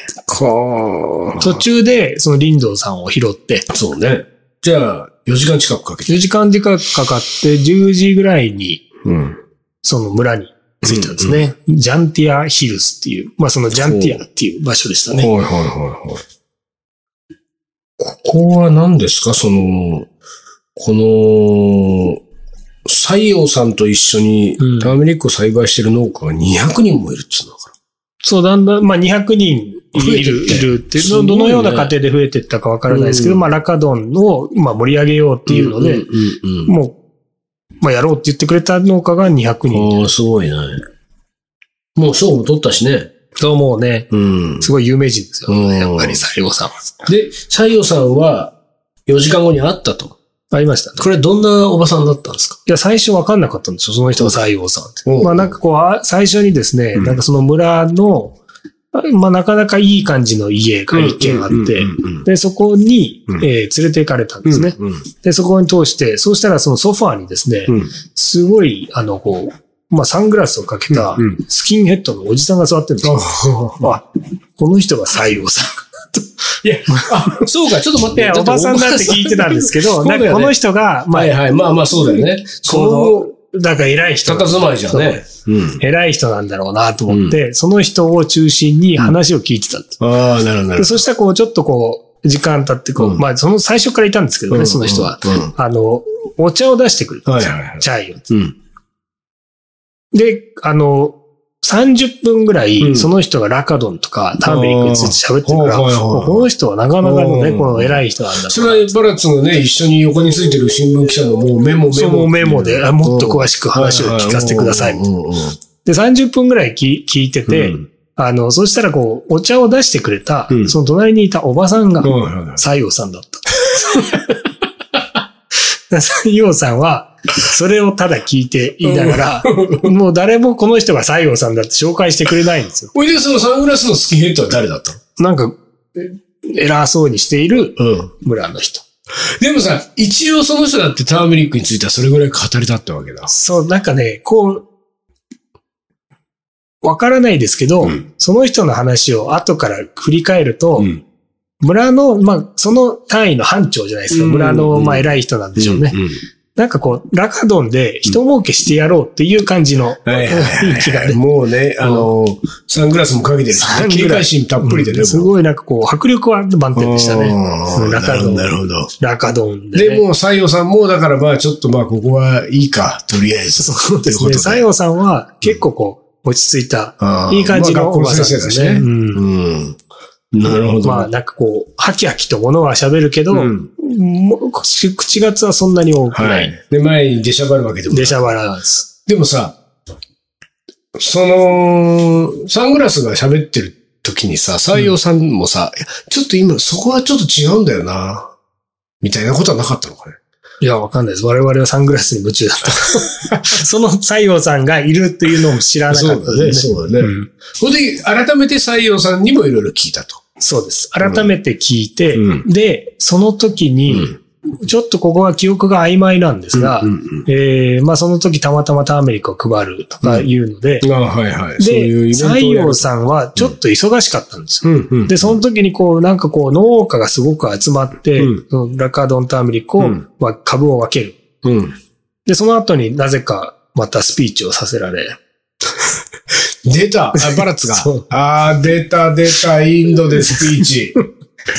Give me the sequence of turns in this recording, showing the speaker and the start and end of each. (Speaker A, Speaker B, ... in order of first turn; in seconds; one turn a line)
Speaker A: 0.3-1.6
Speaker B: 1.4-3.7
Speaker A: 3.7-6.3
Speaker B: 6.1-8.8
Speaker A: 9.1-9.4
Speaker B: 9.8-15.3
Speaker A: 10.8-11.4
Speaker A: 13.7-14.2
Speaker A: 15.1-16.2
Speaker A: 18.0-20.1
Speaker A: 20.8-22.2
Speaker A: 22.9-27.7
Speaker B: 24.6-24.9
Speaker B: 28.2-36.1
Speaker A: 30.0-31.9
Speaker A: 32.9-33.5
Speaker A: 35.5-36.7
Speaker B: 36.7-37.0
Speaker B: 37.8-40.0
Speaker A: 39.7-40.8
Speaker A: 42.0-43.1
Speaker B: 43.4-44.1
Speaker A: 44.1-44.7
Speaker B: 44.6-46.9
Speaker A: 45.5-46.2
Speaker A: 47.1-48.5
Speaker A: 49.1-50.2
Speaker B: 50.5-51.1
Speaker A: 51.0-52.6
Speaker B: 52.7-58.4
Speaker A: 55.0-55.6
Speaker A: 57.0-57.2
Speaker B: 58.9-73.3
Speaker A: 60.9-62.3
Speaker A: 64.5-65.0
Speaker A: 67.7-67.9
Speaker A: 70.9-71.4
Speaker A: 73.0-74.0
Speaker B: 73.8-74.0
Speaker B: 74.6-76.3
Speaker A: 76.6-80.5
Speaker B: 76.9-77.4
Speaker B: 78.0-81.3
Speaker A: 81.1-83.3
Speaker B: 82.0-85.2
Speaker A: 84.3-85.8
Speaker B: 85.8-90.0
Speaker A: 87.1-87.4
Speaker A: 90.0-91.0
Speaker B: 90.8-98.2
Speaker A: 93.0-93.2
Speaker A: 94.5-95.5
Speaker A: 97.3-98.5
Speaker B: 100.1-109.0
Speaker A: 102.8-103.1
Speaker A: 104.4-106.5
Speaker A: 107.0-115.6
Speaker B: 111.9-115.0
Speaker B: 115.8-124.1
Speaker A: 117.5-117.9
Speaker A: 120.5-120.8
Speaker A: 122.0-122.6
Speaker B: 125.9-132.9
Speaker A: 128.8-129.9
Speaker A: 132.9-135.0
Speaker B: 135.2-138.8
Speaker A: 137.8-138.1
Speaker A: 139.4-143.3
Speaker B: 143.3-144.7
Speaker B: 146.8-150.9
Speaker B: 151.6-155.9
Speaker A: 154.1-156.2
Speaker B: 156.6-161.2
Speaker A: 160.1-165.3
Speaker B: 161.8-162.1
Speaker B: 163.5-170.1
Speaker A: 166.8-168.9
Speaker A: 169.8-174.7
Speaker B: 173.6-179.2
Speaker A: 177.0-179.8
Speaker A: 180.3-181.1
Speaker B: 180.8-186.5
Speaker A: 183.3-183.7
Speaker A: 186.1-188.3
Speaker B: 187.9-188.9
Speaker A: 189.1-189.6
Speaker A: 191.0-198.3
Speaker A: 199.0-200.2
Speaker B: 200.6-207.3
Speaker A: 202.9-203.6
Speaker A: 205.9-210.2
Speaker B: 210.4-220.9
Speaker A: 211.0-211.3
Speaker A: 212.2-212.5
Speaker A: 213.9-214.2
Speaker A: 216.5-217.3
Speaker A: 220.0-220.3
Speaker A: 220.8-223.6
Speaker B: 221.6-231.2
Speaker A: 224.6-225.4
Speaker A: 231.4-231.8
Speaker B: 232.3-235.2
Speaker A: 236.7-241.0
Speaker B: 237.2-238.1
Speaker B: 240.2-240.6